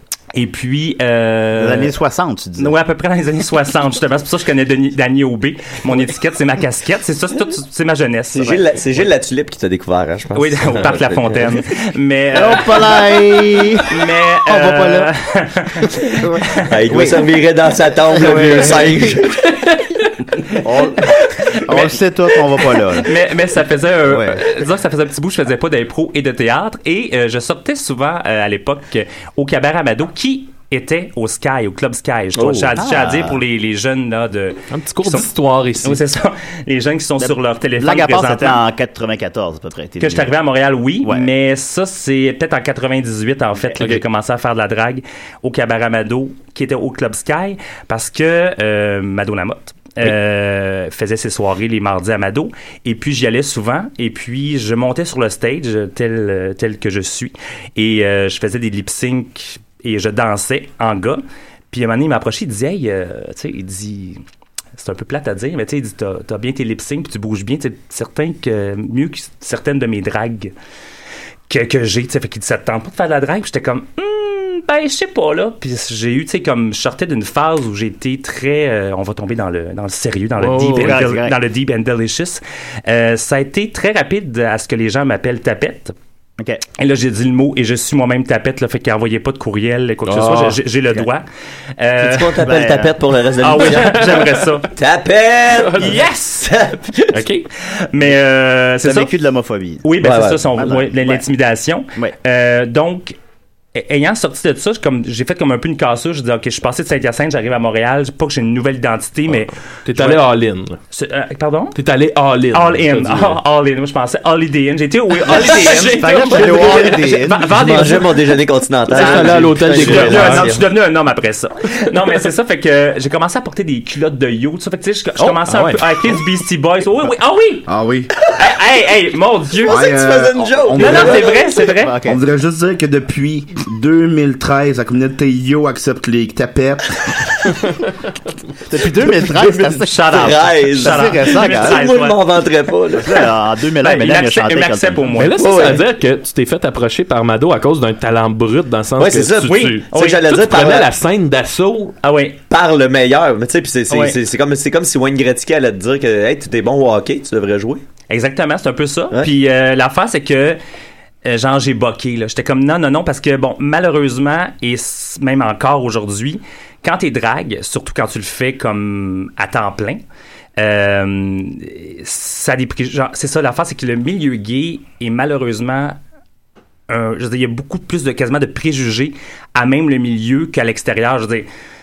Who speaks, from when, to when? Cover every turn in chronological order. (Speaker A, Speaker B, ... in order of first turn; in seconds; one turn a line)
Speaker A: 0.3-1.9
Speaker B: 1.6-2.8
Speaker A: 2.6-8.6
Speaker C: 8.3-11.5
Speaker A: 10.3-13.1
Speaker B: 12.3-15.1
Speaker A: 13.8-16.7
Speaker B: 15.8-17.2
Speaker C: 16.7-19.4
Speaker B: 18.1-19.1
Speaker A: 20.5-22.0
Speaker B: 20.6-23.1
Speaker A: 22.7-35.3
Speaker B: 24.1-24.4
Speaker B: 32.7-33.4
Speaker D: 34.7-36.0
Speaker A: 35.8-38.6
Speaker B: 37.2-40.3
Speaker A: 40.0-64.2
Speaker B: 41.0-41.3
Speaker A: 64.8-70.5
Speaker A: 71.5-85.9
Speaker D: 80.4-81.0
Speaker B: 80.7-81.4
Speaker A: 86.8-91.2
Speaker D: 90.0-90.6
Speaker A: 91.8-92.4
Speaker C: 92.0-97.2
Speaker B: 92.4-92.9
Speaker A: 93.4-94.7
Speaker D: 93.7-94.4
Speaker D: 95.5-96.1
Speaker A: 95.8-96.5
Speaker D: 97.1-97.5
Speaker A: 97.9-99.1
Speaker B: 98.8-101.2
Speaker A: 99.8-103.2
Speaker C: 100.0-100.4
Speaker A: 103.7-110.2
Speaker D: 109.8-110.8
Speaker A: 110.9-111.8
Speaker D: 111.7-113.4
Speaker A: 112.5-118.2
Speaker D: 115.2-117.2
Speaker B: 115.8-117.5
Speaker C: 117.5-120.7
Speaker D: 118.9-120.5
Speaker A: 118.9-127.7
Speaker D: 125.3-126.1
Speaker E: 127.7-128.1
Speaker A: 128.3-129.8
Speaker E: 129.7-131.4
Speaker C: 129.7-131.6
Speaker A: 130.8-131.9
Speaker B: 131.6-132.2
Speaker E: 132.0-136.9
Speaker B: 138.7-141.8
Speaker C: 139.2-143.2
Speaker A: 139.8-142.2
Speaker B: 143.0-145.1
Speaker A: 143.8-145.5
Speaker D: 145.1-151.9
Speaker C: 145.4-145.8
Speaker C: 149.0-150.9
Speaker A: 149.4-150.2
Speaker A: 152.0-152.4
Speaker C: 152.5-157.8
Speaker A: 153.9-154.2
Speaker A: 158.1-160.6
Speaker A: 161.2-170.0
Speaker A: 170.6-176.0
Speaker A: 176.9-181.5